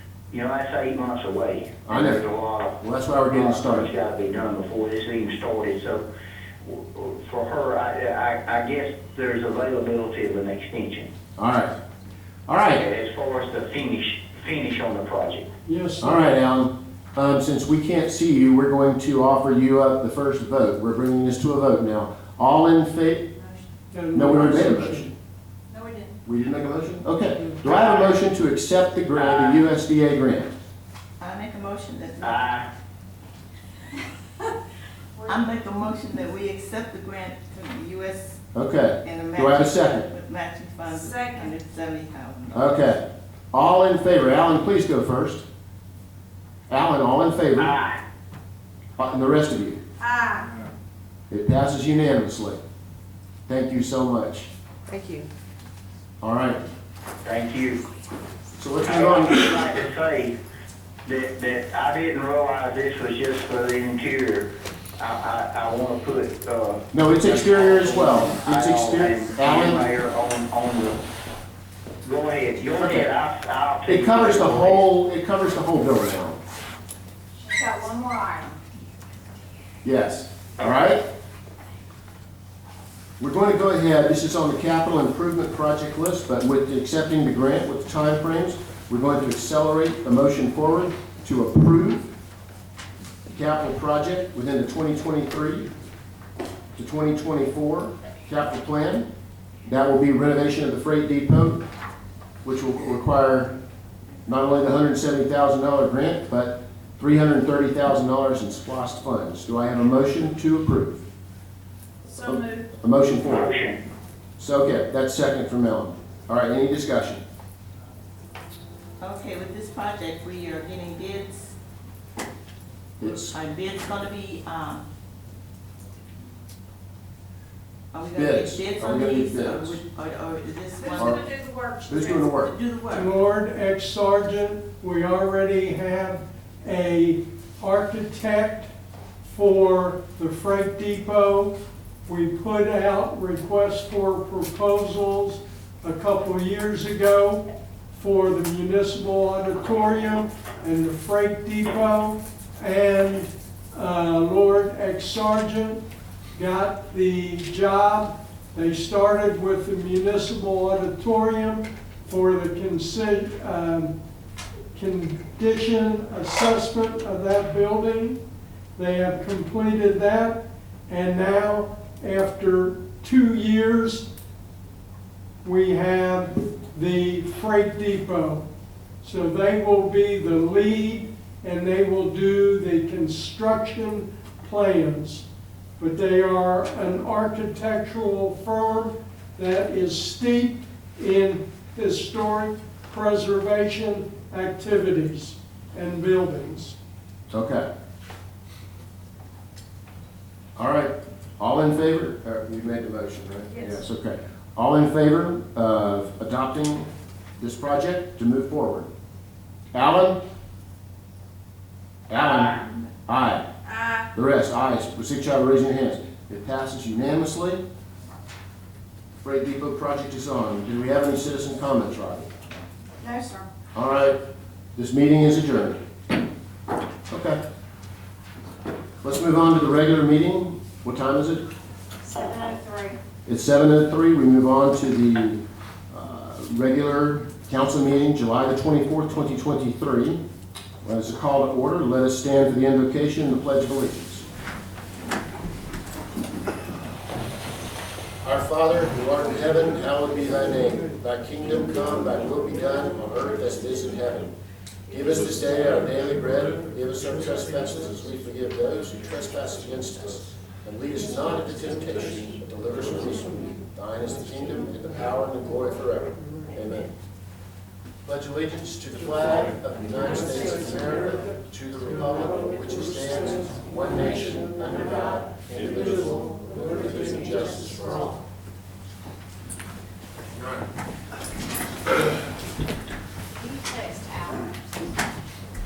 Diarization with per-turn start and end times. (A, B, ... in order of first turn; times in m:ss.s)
0:00.3-0:02.8 A
0:01.8-0:02.2 B
0:02.8-0:03.9 B
0:03.3-0:06.0 A
0:06.6-0:11.1 A
0:11.4-0:11.7 B
0:12.5-0:12.8 B
0:12.7-0:15.4 A
0:15.7-0:16.2 C
0:16.0-0:23.3 B
0:23.9-0:25.1 C
0:24.1-0:25.1 B
0:25.7-0:26.2 D
0:26.2-0:30.5 B
0:29.1-0:29.7 A
0:31.2-0:32.4 E
0:32.2-0:32.7 A
0:35.2-0:38.4 E
0:38.5-0:40.1 B
0:39.0-0:42.8 E
0:41.0-0:41.5 D
0:42.5-0:45.4 B
0:46.7-0:47.7 B
0:47.6-0:48.0 A
0:49.0-0:49.8 B
0:50.0-0:50.5 D
0:51.3-0:52.6 B
0:53.5-0:54.5 B
0:56.2-0:56.6 B
0:57.2-0:57.8 A
0:58.6-0:59.5 B
0:58.8-1:00.3 A
1:01.1-1:04.5 A
1:05.0-1:11.0 A
1:06.9-1:09.9 B
1:12.0-1:14.9 A
1:12.8-1:13.1 B
1:13.9-1:16.4 B
1:17.5-1:18.6 D
1:19.8-1:21.0 B
1:23.2-1:32.1 B
1:33.3-1:35.7 B
1:36.8-1:39.1 B
1:39.7-1:41.6 B
1:42.4-1:43.5 B
1:44.3-1:51.0 B
1:52.1-1:52.6 D
1:52.2-1:53.5 B
1:53.2-1:53.8 A
1:54.4-1:57.2 B
1:59.0-2:01.6 E
2:03.0-2:03.3 B
2:03.2-2:04.9 E
2:07.9-2:11.2 E
2:08.2-2:09.8 B
2:10.8-2:12.3 D
2:11.0-2:11.2 B
2:11.8-2:12.5 B
2:12.5-2:13.1 E
2:12.9-2:18.7 C
2:19.2-2:21.6 C
2:22.1-2:35.8 C
2:36.3-2:43.9 C
2:44.7-2:48.2 C
2:48.8-2:54.1 C
2:55.4-2:58.4 C
2:59.0-3:05.2 C
3:05.8-3:16.8 C
3:17.3-3:17.7 B
3:20.6-3:28.9 B
3:29.7-3:30.2 B
3:32.1-3:33.4 B
3:33.7-3:34.0 D
3:34.1-3:37.6 B
3:39.2-3:42.4 B
3:43.0-3:43.5 D
3:43.8-3:44.2 B
3:44.8-3:45.8 B
3:47.1-3:47.4 B
3:49.0-3:51.5 B
3:52.1-3:53.0 D
3:53.3-4:00.2 B
4:00.8-4:04.2 B
4:08.2-4:14.3 B
4:14.9-4:26.9 B
4:28.1-4:38.2 B
4:43.4-4:44.8 D